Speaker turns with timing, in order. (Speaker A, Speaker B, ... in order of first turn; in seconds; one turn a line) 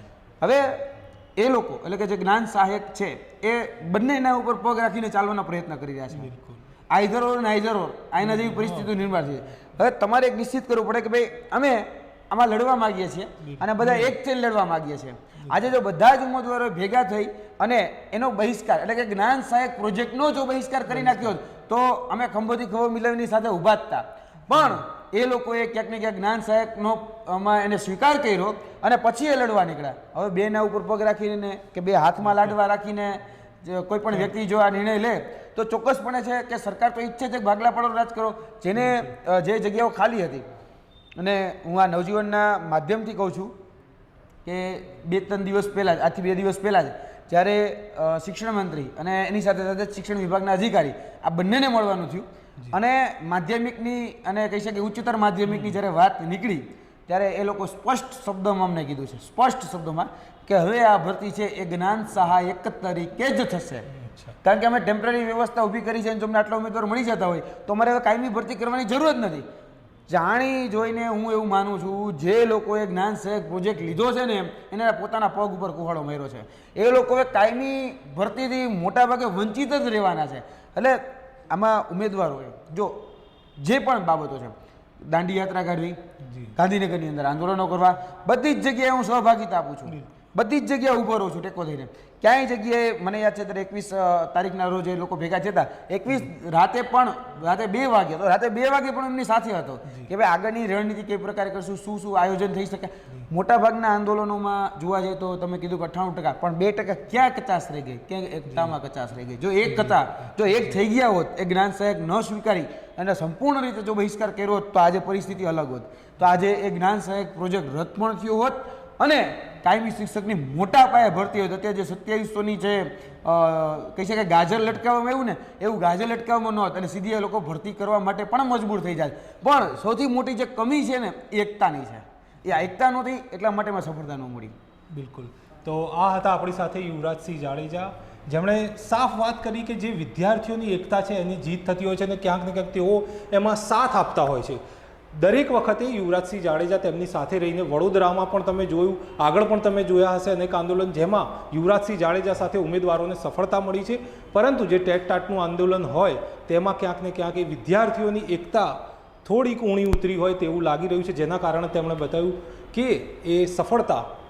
Speaker A: 0.4-6.3
Speaker B: 6.1-6.7
Speaker A: 6.9-40.5
Speaker B: 8.2-8.9
Speaker B: 13.4-14.1
Speaker A: 41.2-43.5
Speaker A: 44.5-63.9
Speaker B: 55.5-55.8
Speaker B: 63.9-64.3
Speaker A: 64.4-69.5
Speaker A: 70.1-83.1
Speaker A: 83.6-86.0
Speaker B: 86.2-86.5
Speaker A: 86.5-134.5
Speaker B: 109.7-110.0
Speaker B: 134.9-144.6
Speaker B: 145.1-164.1